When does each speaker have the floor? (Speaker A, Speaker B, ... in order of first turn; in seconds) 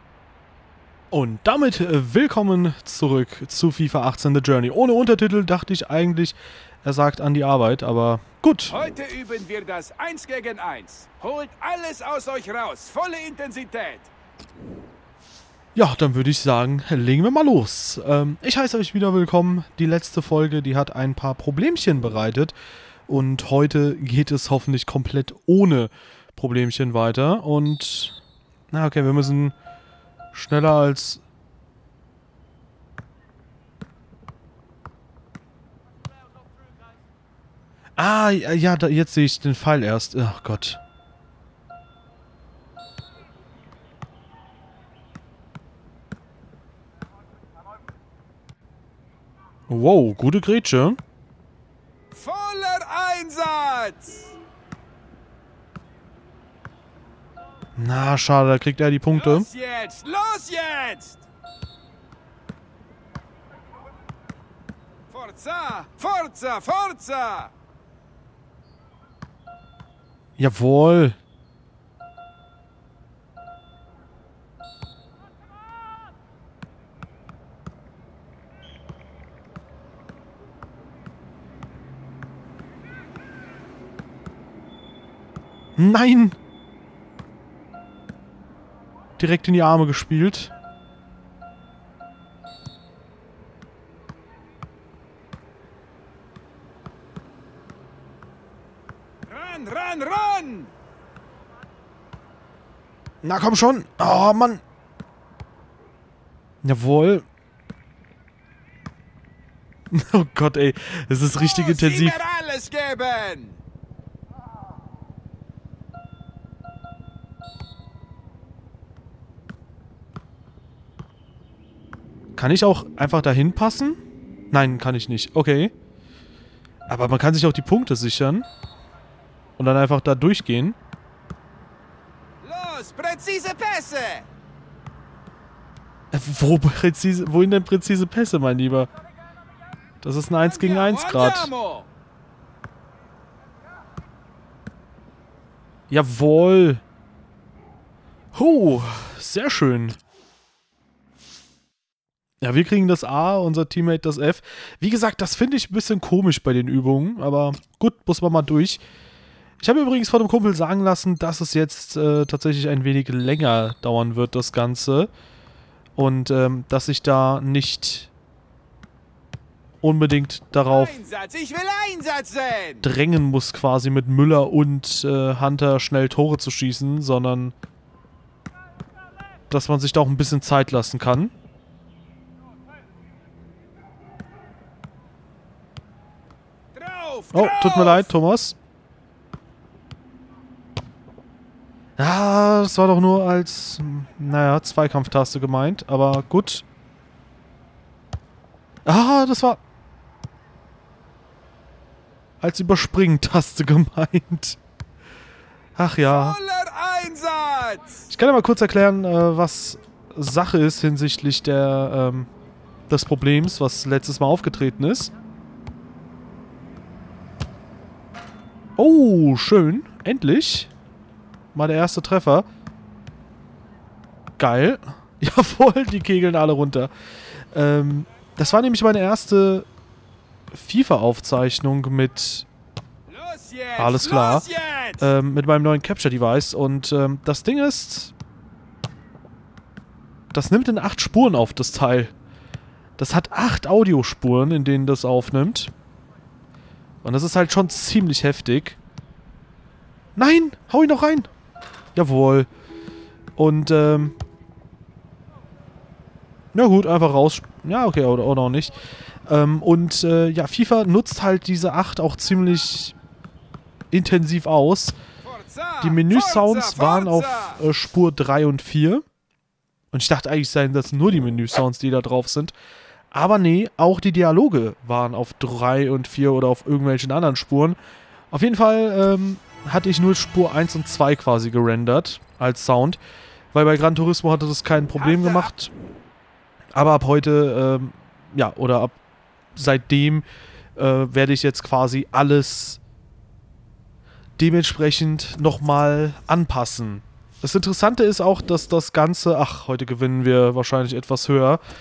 Speaker A: 1.1-8.8, 15.7-22.5, 23.1-28.1, 28.7-29.5, 30.3-31.2, 38.0-40.8, 49.7-51.0, 57.8-59.5, 70.4-71.2, 85.8-86.3, 89.2-90.5, 103.2-104.6, 106.6-107.3, 109.9-112.2, 122.3-125.7, 126.9-128.4, 129.6-130.8, 136.1-138.9, 140.0-141.5, 145.9-146.8, 148.3-150.0, 152.4-158.8, 159.6-165.1, 165.9-168.1, 169.8-171.0, 172.8-177.5, 179.5-181.3, 187.3-188.6, 192.0-196.6, 198.8-199.6, 202.4-204.6, 205.8-206.4, 208.1-212.3, 212.9-215.1, 218.8-220.7, 221.5-222.4, 224.4-226.9, 227.5-229.7, 230.5-232.5, 233.8-238.1, 240.3-242.1, 243.0-245.7, 247.0-248.8, 250.2-251.3, 251.9-252.5, 253.4-254.2, 256.5-258.7, 259.3-262.9, 263.9-264.9, 265.8-269.0, 269.9-272.5, 273.1-277.8, 278.3-283.0, 283.5-285.7, 286.7-289.0, 289.5-290.2, 290.8-292.8, 294.4-301.6
Speaker B: 8.7-14.1, 52.1-54.4, 59.1-61.3, 65.1-67.5, 99.2-100.7, 111.3-113.6, 132.4-134.3, 140.4-141.9, 170.7-172.9, 186.7-188.1, 206.0-208.1, 233.1-235.1, 265.2-267.6, 284.9-285.5